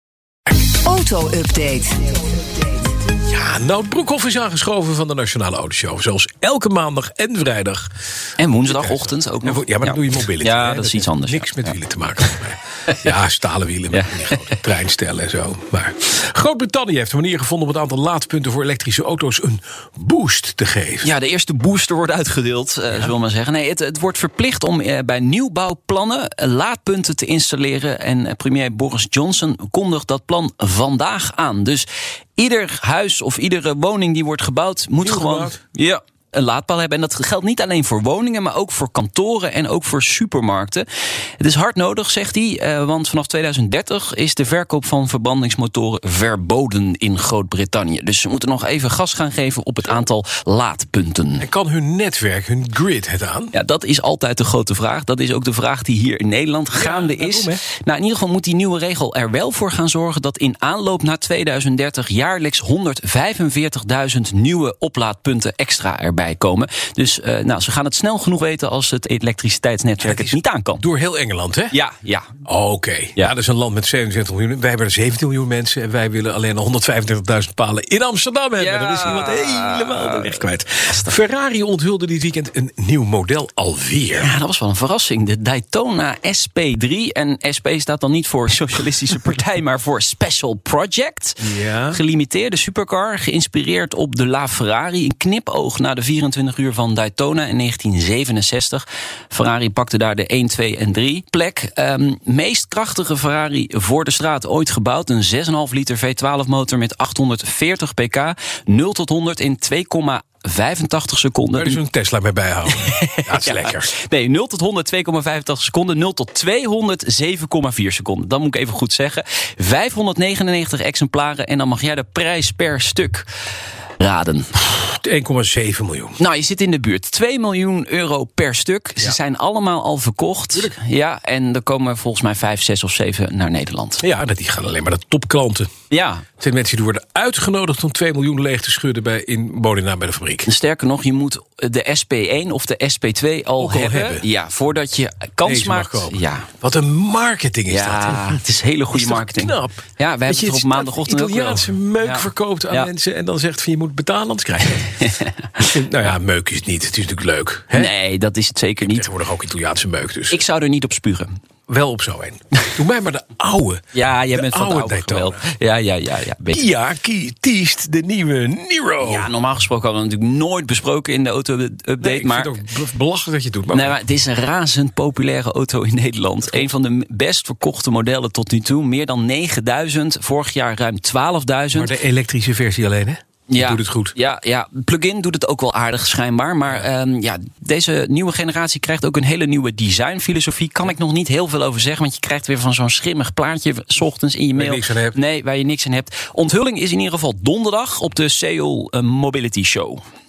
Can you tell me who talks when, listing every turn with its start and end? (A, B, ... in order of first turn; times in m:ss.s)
0:00.7-0:02.9 A
0:03.2-0:07.9 B
0:08.4-0:11.8 C
0:08.7-0:21.1 B
0:13.9-0:14.5 C
0:21.0-0:40.9 C
0:35.0-0:35.6 B
0:41.4-0:51.5 C
0:51.4-0:53.5 B
0:53.5-1:10.8 C
0:56.7-0:57.6 B
1:10.0-1:11.8 B
1:11.7-1:12.3 C
1:12.4-1:24.3 B
1:18.6-1:21.1 C
1:24.1-1:51.8 C
1:31.4-1:32.0 B
1:51.5-1:53.9 B
1:52.8-2:03.3 C
2:04.0-2:04.7 C
2:04.7-2:06.2 B
2:06.2-2:14.0 C
2:14.0-2:15.7 B
2:15.9-2:16.3 C
2:16.4-2:20.5 B
2:20.5-2:26.5 C
2:23.6-2:24.2 B
2:25.4-2:28.4 B
2:27.7-2:32.9 C
2:28.9-2:37.9 B
2:35.0-2:35.7 C
2:37.7-2:39.1 C
2:38.8-2:40.4 B
2:40.3-2:41.4 C
2:41.7-2:45.5 B
2:43.9-2:46.6 C
2:46.5-2:49.3 B
2:49.0-2:52.6 C
2:52.0-2:54.0 B
2:53.7-3:02.0 C
3:01.7-3:04.2 B
3:03.5-3:20.0 C
3:14.6-3:15.2 B